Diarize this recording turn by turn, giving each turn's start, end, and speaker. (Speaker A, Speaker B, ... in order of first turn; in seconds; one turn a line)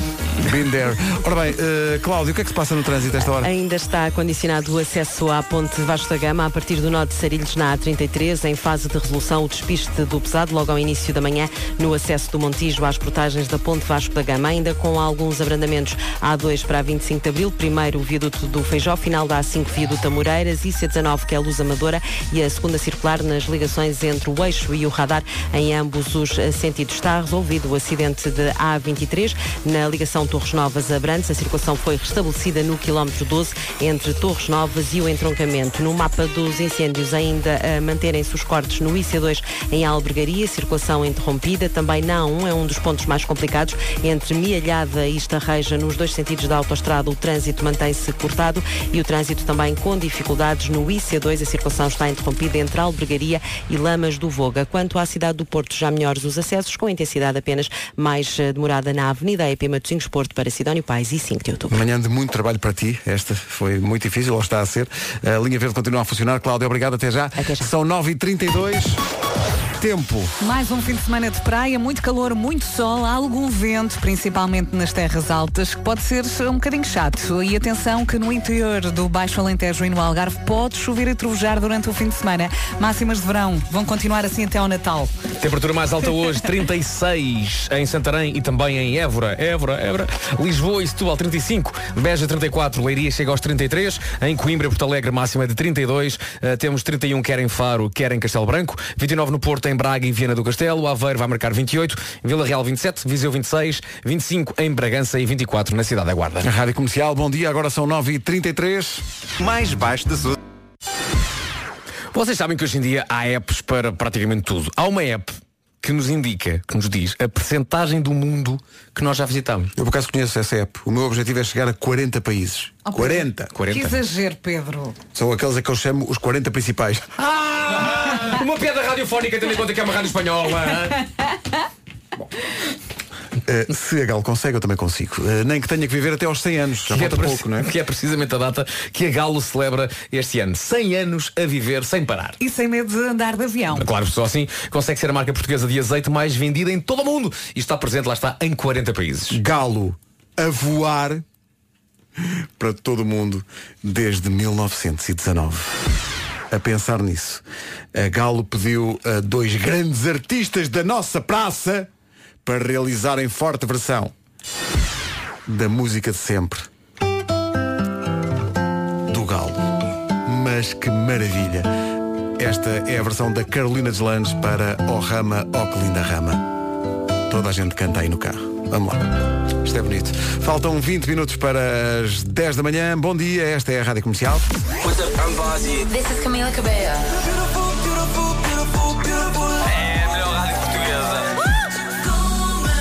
Speaker A: 0.4-3.5
Speaker B: 3.2-61.8
Speaker A: 61.7-69.0
Speaker B: 67.4-67.7
Speaker A: 69.8-70.3
Speaker C: 70.4-85.1
Speaker D: 85.4-106.5
Speaker A: 106.4-110.3
Speaker D: 112.1-119.7
Speaker A: 119.8-123.5
Speaker C: 122.9-125.0
Speaker D: 123.5-124.0
Speaker A: 125.1-128.3
Speaker D: 127.7-131.1
Speaker A: 133.5-137.7
Speaker D: 136.8-142.4
Speaker C: 142.4-143.9
Speaker D: 143.7-149.4
Speaker A: 149.3-151.2
Speaker A: 152.6-155.8
Speaker A: 156.5-157.4
Speaker A: 157.9-161.9
Speaker A: 162.4-164.1
Speaker A: 165.5-166.7
Speaker A: 169.1-169.7
Speaker A: 170.2-171.7
Speaker A: 172.4-176.5
Speaker A: 177.3-184.5
Speaker E: 184.8-187.3
Speaker E: 188.7-191.4